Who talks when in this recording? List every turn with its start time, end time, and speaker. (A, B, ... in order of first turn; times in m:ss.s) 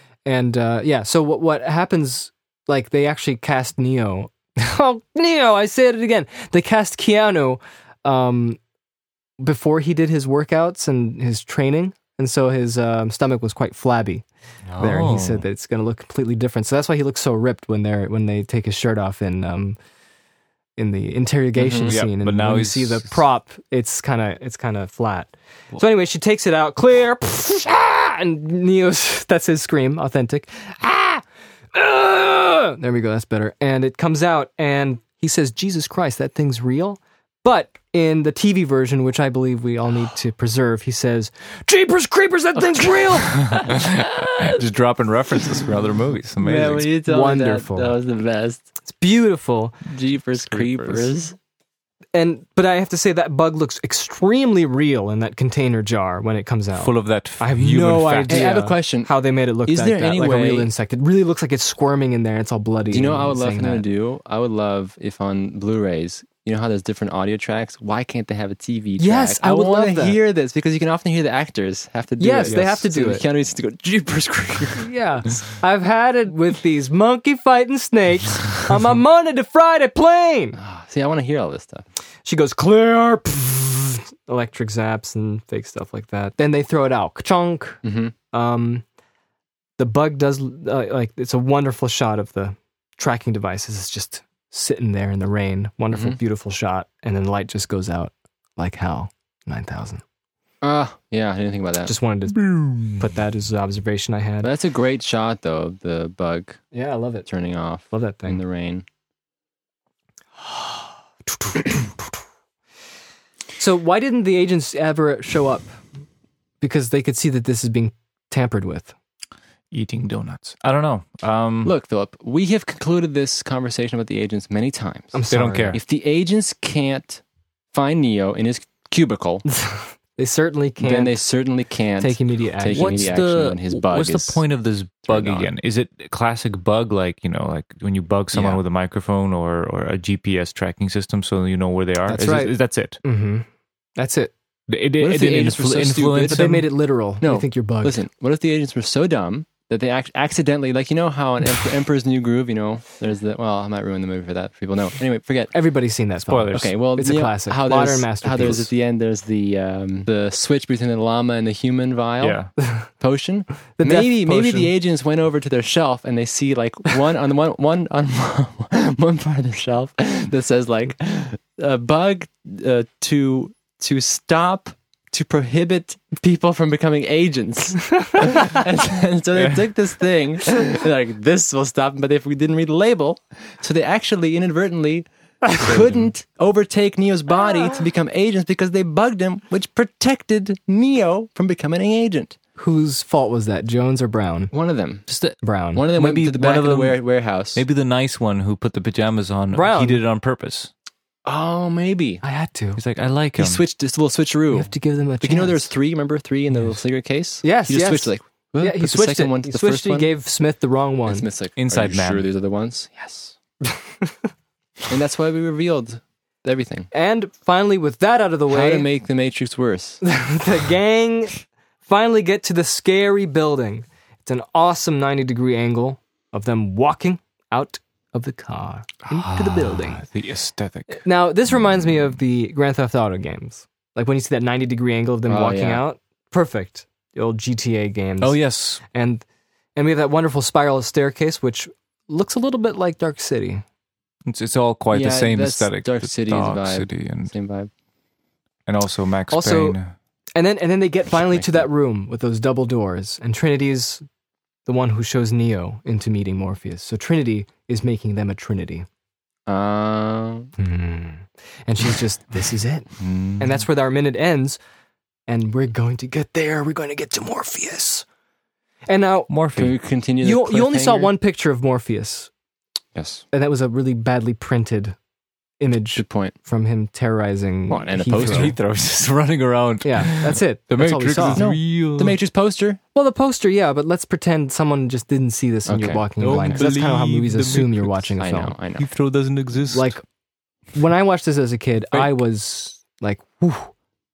0:00.2-0:08.6 A
0:09.4-0:14.2 A
0:14.7-0:15.4 B
0:14.8-0:19.8 A
0:20.8-0:31.2 A
0:21.6-0:22.0 C
0:21.9-0:23.2 B
0:31.7-0:43.6 A
0:43.4-0:46.9 B
0:46.4-0:48.7 C
0:47.0-0:47.9 A
0:48.9-0:49.8 A
0:49.9-0:51.4 C
0:50.5-0:51.1 B
0:52.1-1:03.8 A
0:56.7-0:58.5 B
0:58.3-0:59.1 C
0:59.6-1:00.7 C
1:02.9-1:14.9 C
1:09.0-1:10.2 A
1:12.2-1:13.2 A
1:12.4-1:12.8 B
1:14.8-1:20.6 A
1:20.6-1:21.8 C
1:22.2-1:28.8 A
1:27.8-1:28.1 C
1:29.8-1:40.0 A
1:35.9-1:36.2 C
1:40.6-1:41.9 C
1:41.9-1:44.5 A
1:44.4-1:46.6 C
1:46.7-1:47.3 A
1:47.2-1:48.8 C
1:47.9-1:48.4 A
1:50.4-1:52.1 A
1:53.6-1:55.7 A
1:56.6-1:58.9 A
1:59.7-2:01.7 B
2:01.6-2:05.2 C
2:05.1-2:05.8 A
2:05.3-2:05.8 B
2:05.7-2:07.2 C
2:07.7-2:09.4 C
2:09.5-2:11.2 A
2:10.8-2:14.4 C
2:12.0-2:13.1 A
2:12.7-2:23.0 B
2:15.1-2:15.5 C
2:18.3-2:18.6 C
2:22.1-2:23.5 A
2:24.0-2:24.3 A
2:24.7-2:26.7 B
2:25.0-2:26.6 C
2:26.3-2:28.0 A
2:27.2-2:35.5 C
2:35.5-2:38.7 A
2:36.2-2:36.7 B
2:36.5-3:12.4 C
2:42.2-2:42.5 B
2:42.6-2:42.9 A
2:43.8-2:44.7 A
3:05.6-3:06.1 B
3:12.6-3:14.5 A
3:14.5-3:15.1 C
3:15.1-3:15.4 B
3:15.4-3:15.8 A
3:15.8-3:17.6 C
3:15.9-3:17.0 B
3:17.5-3:20.7 B
3:19.5-3:20.0 A
3:21.2-3:22.2 C
3:22.2-3:22.8 A
3:22.8-3:23.6 B
3:23.4-3:30.1 C
3:24.5-3:25.7 A
3:27.4-3:31.2 A
3:31.1-3:33.3 C
3:31.6-3:32.3 B
3:33.7-3:34.1 A
3:34.9-3:36.9 C
3:36.9-3:38.9 A
3:38.5-3:40.0 C
3:40.0-3:50.0 A
3:49.1-3:51.0 B
3:50.9-3:58.4 A
3:55.3-3:55.8 C
3:58.2-3:58.8 B
3:58.9-3:59.2 A
3:59.8-4:03.6 A
4:04.2-4:07.3 B
4:04.9-4:07.7 C
4:08.7-4:09.9 B
4:09.3-4:09.8 A
4:10.4-4:14.0 A
4:11.2-4:11.6 C
4:14.7-4:18.8 A
4:19.5-4:20.5 C
4:20.6-4:24.6 A
4:23.0-4:23.6 B
4:25.3-4:28.0 A
4:28.9-4:29.3 A
4:29.3-4:29.7 B
4:29.6-4:31.1 C
4:30.2-4:32.3 A
4:33.0-4:33.2 C
4:33.3-4:35.0 A
4:35.6-4:38.5 A
4:36.0-4:36.3 C
4:37.7-4:38.5 C
4:38.2-4:42.2 B
4:39.8-4:41.4 A
4:41.3-4:42.8 C
4:43.0-4:48.6 A
4:45.7-4:46.6 C
4:46.2-4:48.1 B
4:48.2-4:48.8 C
4:48.8-4:49.9 B
4:49.7-4:50.0 A
4:50.7-4:53.7 A